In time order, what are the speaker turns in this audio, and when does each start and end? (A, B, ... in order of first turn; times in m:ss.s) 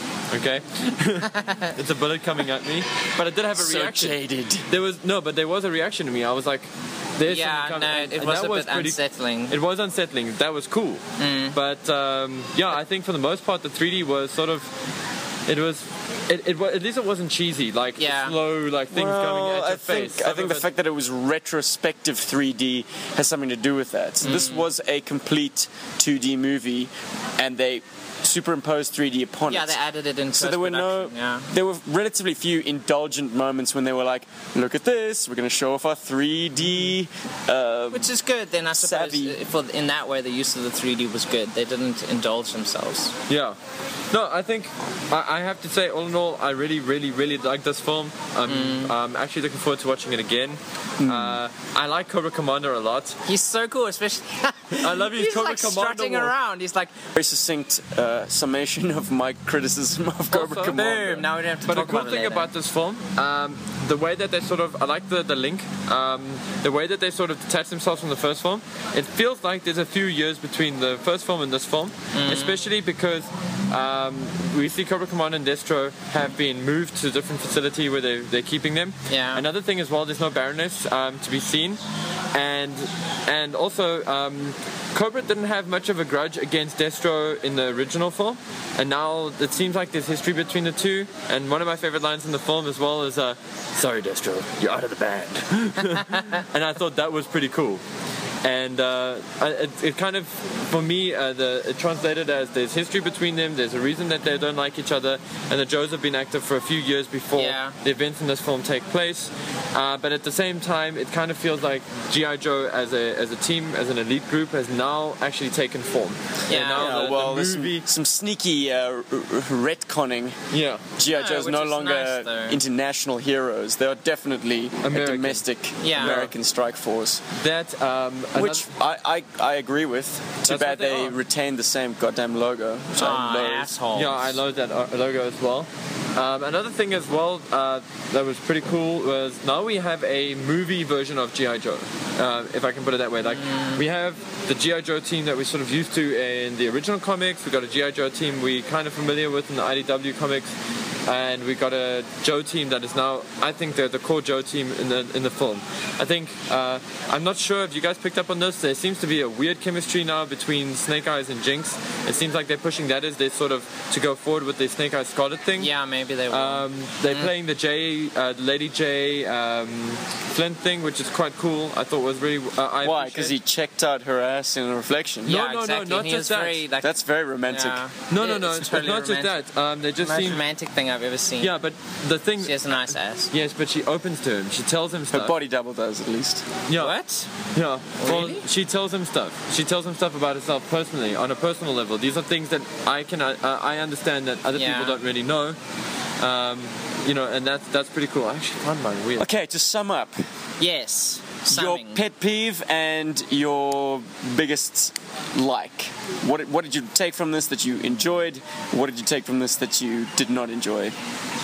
0:00.3-0:11.0 A
0:01.3-0:01.7 B
0:03.5-0:04.7 C
0:07.2-0:09.5 B
0:11.2-0:11.6 B
0:11.5-0:14.7 A
0:15.5-0:20.7 A
0:18.0-0:18.4 B
0:18.9-0:29.8 C
0:24.2-0:24.7 B
0:29.5-0:31.5 B
0:30.3-0:38.1 C
0:37.9-0:43.1 B
0:38.7-0:39.4 C
0:43.3-0:43.6 A
0:44.1-0:53.2 A
0:48.4-0:48.9 B
0:51.0-0:51.4 C
0:53.2-0:56.9 B
0:54.7-0:56.3 A
0:57.1-1:01.2 C
1:00.3-1:21.8 A
1:00.7-1:02.5 B
1:12.1-1:12.6 B
1:19.1-1:19.4 B
1:22.3-1:37.8 A
1:38.4-1:57.8 A
1:47.4-1:47.8 B
1:56.5-1:56.9 B
1:56.7-2:00.4 C
2:00.5-2:00.8 A
2:01.0-2:07.2 C
2:01.1-2:02.6 B
2:04.8-2:06.3 A
2:05.8-2:06.2 B
2:07.4-2:08.6 A
2:08.4-2:13.7 C
2:10.4-2:11.2 A
2:13.0-2:14.4 B
2:13.9-2:30.5 A
2:23.3-2:23.8 B
2:31.0-2:45.7 A
2:45.6-2:47.3 B
2:46.3-2:53.4 A
2:52.8-2:55.3 C
2:55.2-2:59.3 B
2:55.3-2:56.6 A
2:56.8-2:57.8 C
2:58.1-3:00.4 A
3:00.0-3:01.5 B
3:01.4-3:05.3 A
3:02.4-3:03.3 B
3:05.1-3:06.4 C
3:06.7-3:07.0 A
3:06.8-3:07.3 B
3:07.5-3:15.6 A
3:08.0-3:08.4 B
3:14.5-3:15.0 B
3:16.2-3:19.2 A
3:19.2-3:20.1 C
3:20.6-3:22.0 B
3:21.5-3:31.0 C